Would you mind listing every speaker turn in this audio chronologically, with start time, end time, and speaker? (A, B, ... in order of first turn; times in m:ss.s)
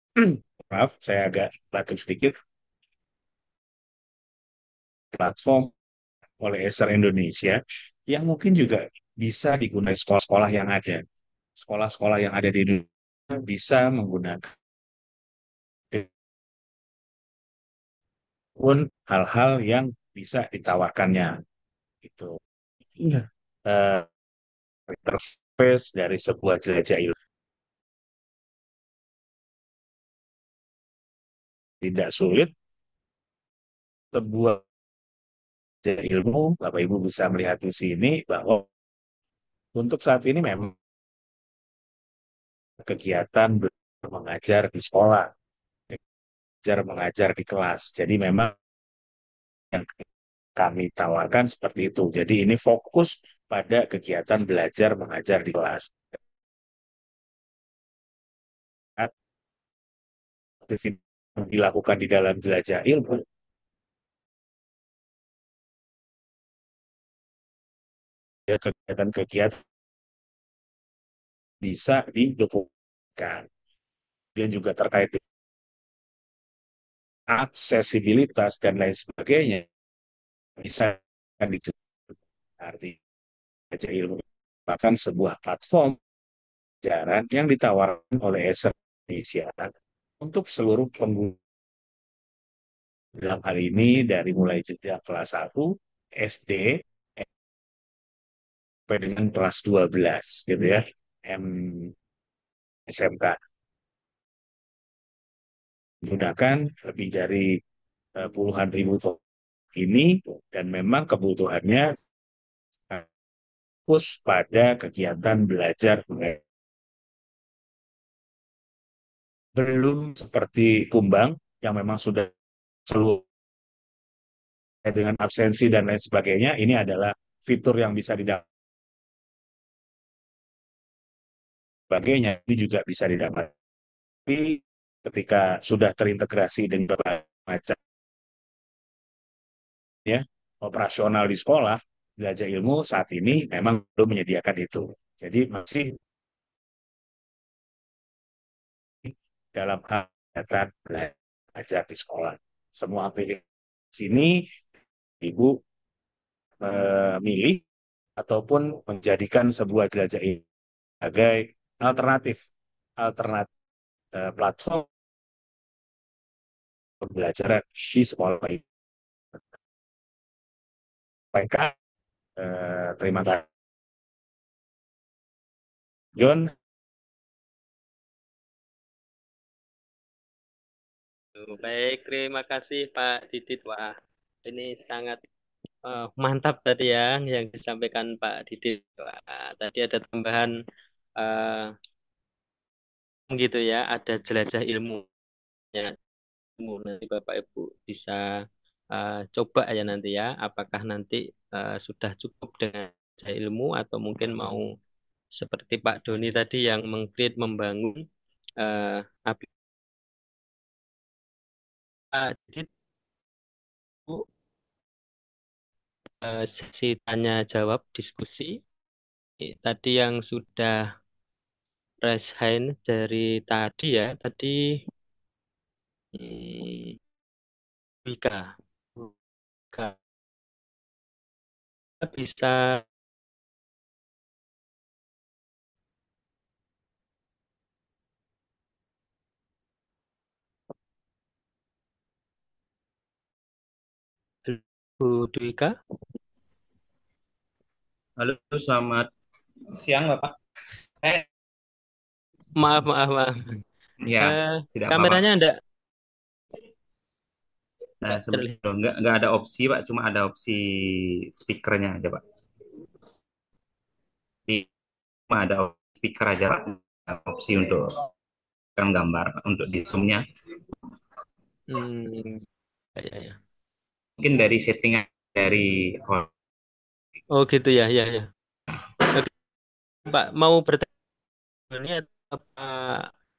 0:00.2-0:02.3 A
0:05.1-0:05.7 A
0:06.4-0:07.6 A
0:08.1-0:11.0 A
0:11.6-0:12.8 A
0:13.4-0:14.5 A
0:18.6-0:21.3 A
0:22.0-0:22.3 A
0:23.0-0:24.1 A
0:24.9-0:27.2 A
0:31.8-0:32.5 A
0:34.1-0:34.6 A
0:35.8-0:38.6 A
0:39.8-0:40.7 A
0:42.8-0:45.3 A
0:46.7-0:48.5 A
0:49.7-0:50.0 A
0:50.6-0:56.2 A
1:00.6-1:03.2 A
1:08.5-1:09.6 A
1:11.6-1:13.5 A
1:14.4-1:15.2 A
1:17.3-1:19.6 A
1:20.6-1:21.7 A
1:22.6-1:23.0 A
1:23.7-1:26.0 A
1:26.8-1:29.7 A
1:30.2-1:31.4 A
1:33.2-1:36.7 A
1:38.9-1:41.9 A
1:42.9-1:43.4 A
1:46.0-1:47.5 A
1:48.2-1:49.2 A
1:49.7-1:51.9 A
1:53.9-1:56.4 A
1:59.6-2:02.3 A
2:02.9-2:03.2 A
2:04.9-2:08.4 A
2:11.9-2:13.5 A
2:14.3-2:17.8 A
2:20.1-2:25.9 A
2:29.0-2:33.4 A
2:33.9-2:34.3 A
2:35.2-2:35.5 A
2:36.6-2:37.6 A
2:38.2-2:40.4 A
2:41.0-2:42.4 A
2:43.0-2:43.5 A
2:44.1-2:44.9 A
2:47.0-2:48.6 A
2:51.3-2:51.7 A
2:52.4-2:53.4 A
2:56.2-2:56.5 A
3:01.4-3:03.9 B
3:04.5-3:05.2 B
3:05.9-3:10.5 B
3:11.2-3:11.7 B
3:13.3-3:15.0 B
3:16.6-3:18.2 B
3:18.9-3:24.6 B
3:25.4-3:28.0 B
3:28.6-3:29.5 B
3:32.1-3:32.7 B
3:36.2-3:38.6 B
3:39.4-3:40.8 B
3:42.0-3:44.6 B
3:46.2-3:47.0 B
3:48.1-3:48.5 B
3:52.0-3:52.8 B
4:04.5-4:05.7 B
4:08.2-4:09.1 C
4:09.7-4:10.3 C
4:11.0-4:11.2 C
4:12.6-4:13.3 B
4:14.0-4:15.2 C
4:14.2-4:15.5 B
4:18.0-4:22.2 C
4:18.1-4:18.5 B
4:25.3-4:28.0 C
4:28.8-4:30.2 C
4:31.7-4:32.4 B
4:33.0-4:33.4 B
4:34.2-4:36.3 C
4:37.3-4:38.3 B
4:40.1-4:40.9 B
4:41.7-4:43.1 B